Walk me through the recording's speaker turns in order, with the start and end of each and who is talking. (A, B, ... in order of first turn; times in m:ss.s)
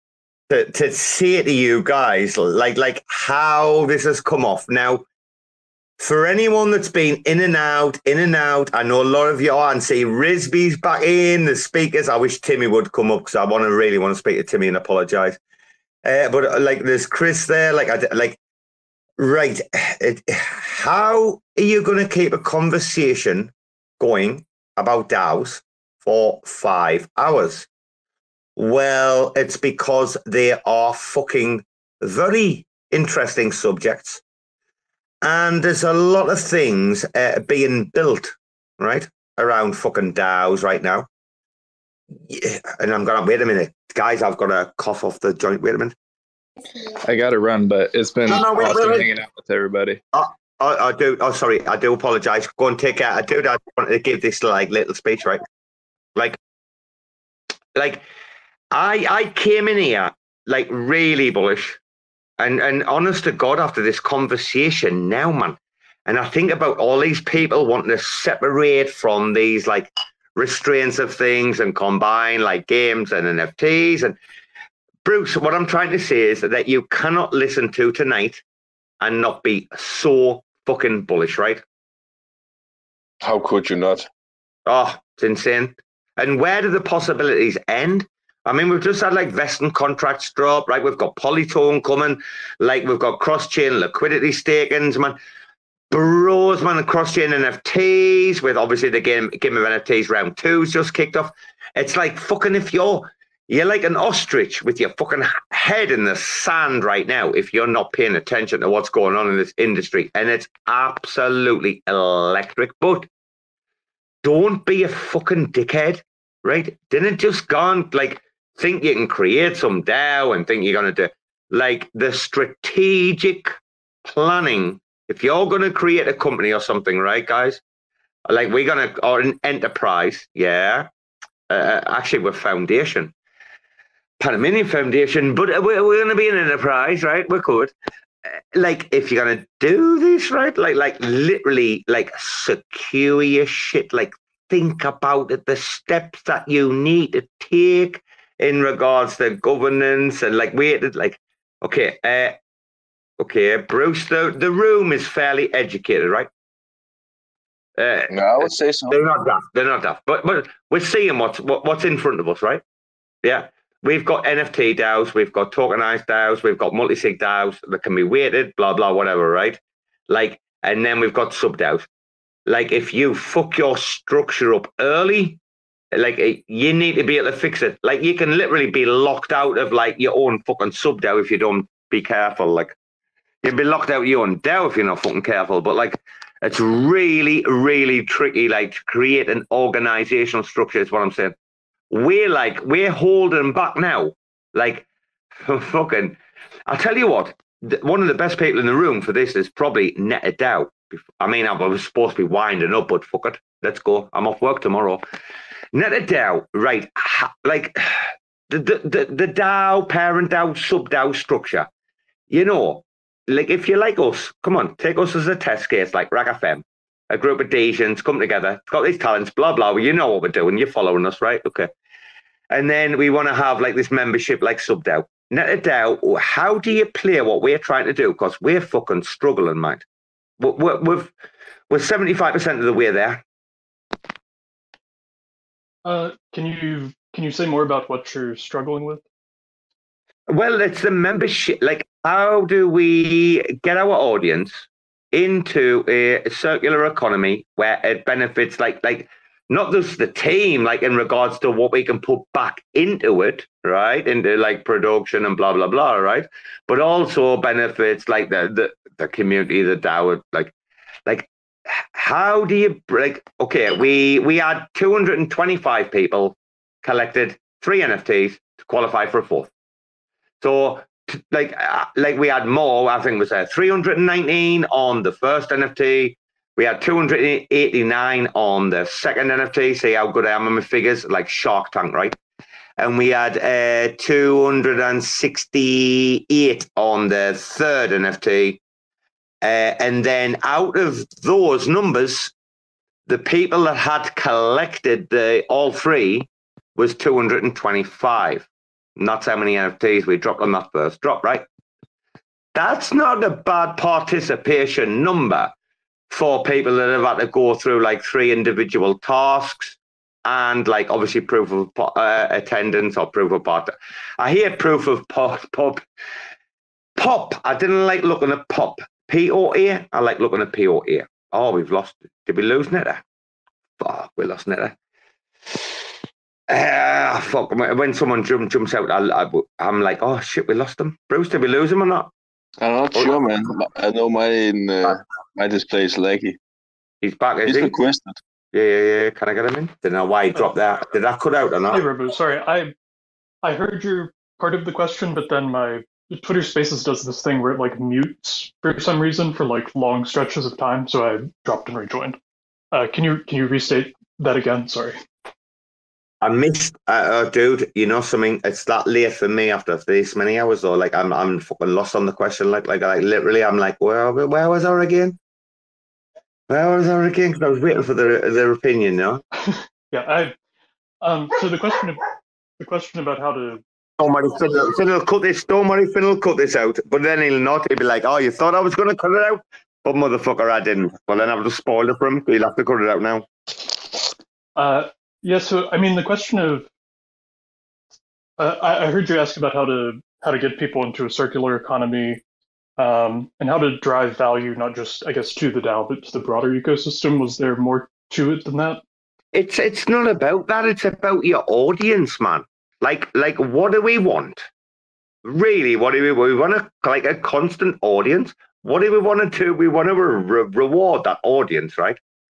0:00.5-0:05.0 A
0:06.0-0:15.4 A
0:16.0-0:18.4 A
0:19.2-0:27.7 A
0:28.6-0:34.2 A
0:35.2-0:41.1 A
0:42.2-0:46.0 A
0:47.0-0:50.0 B
0:48.3-0:49.1 A
0:50.1-0:55.4 A
0:57.8-0:58.0 A
0:58.7-1:01.8 A
1:02.4-1:14.2 A
1:15.0-1:18.4 A
1:19.0-1:21.6 A
1:23.2-1:24.1 C
1:24.7-1:35.2 A
1:35.9-1:53.1 A
1:54.2-2:07.6 A
2:08.3-2:10.9 A
2:11.5-2:13.1 A
2:14.2-2:17.7 A
2:18.5-2:32.4 A
2:33.2-2:36.3 A
2:37.8-2:42.6 A
2:38.1-2:39.0 C
2:43.2-2:51.9 A
2:52.5-2:55.4 A
2:55.9-3:02.8 A
3:03.4-3:11.4 A
3:11.9-3:14.8 A
3:15.4-3:25.0 A
3:25.7-3:31.7 A
3:32.3-3:41.7 A
3:42.5-3:49.8 A
3:50.4-3:51.1 A
3:51.7-3:53.2 A
3:55.8-3:59.0 D
4:00.3-4:20.5 A
4:21.1-4:29.5 A
4:30.4-4:42.2 A
4:42.8-4:48.6 A
4:49.4-4:52.3 A
4:53.1-5:01.5 A
5:02.6-5:05.5 A
5:06.1-5:15.8 A
5:17.0-5:23.0 A
5:23.8-5:24.8 A
5:26.5-5:32.1 A
5:32.6-5:36.4 C
5:37.0-5:37.7 A
5:37.4-5:38.2 C
5:38.5-5:41.9 A
5:41.7-5:42.7 D
5:43.4-5:52.2 D
5:52.7-5:55.0 D
5:56.2-6:05.2 A
6:06.5-6:09.2 A
6:09.5-6:10.4 D
6:11.0-6:12.0 D
6:12.6-6:13.6 D
6:14.0-6:23.3 A
6:24.6-6:26.7 D
6:28.4-6:32.2 D
6:32.8-6:38.8 D
6:39.3-6:44.5 A
6:45.2-6:52.0 A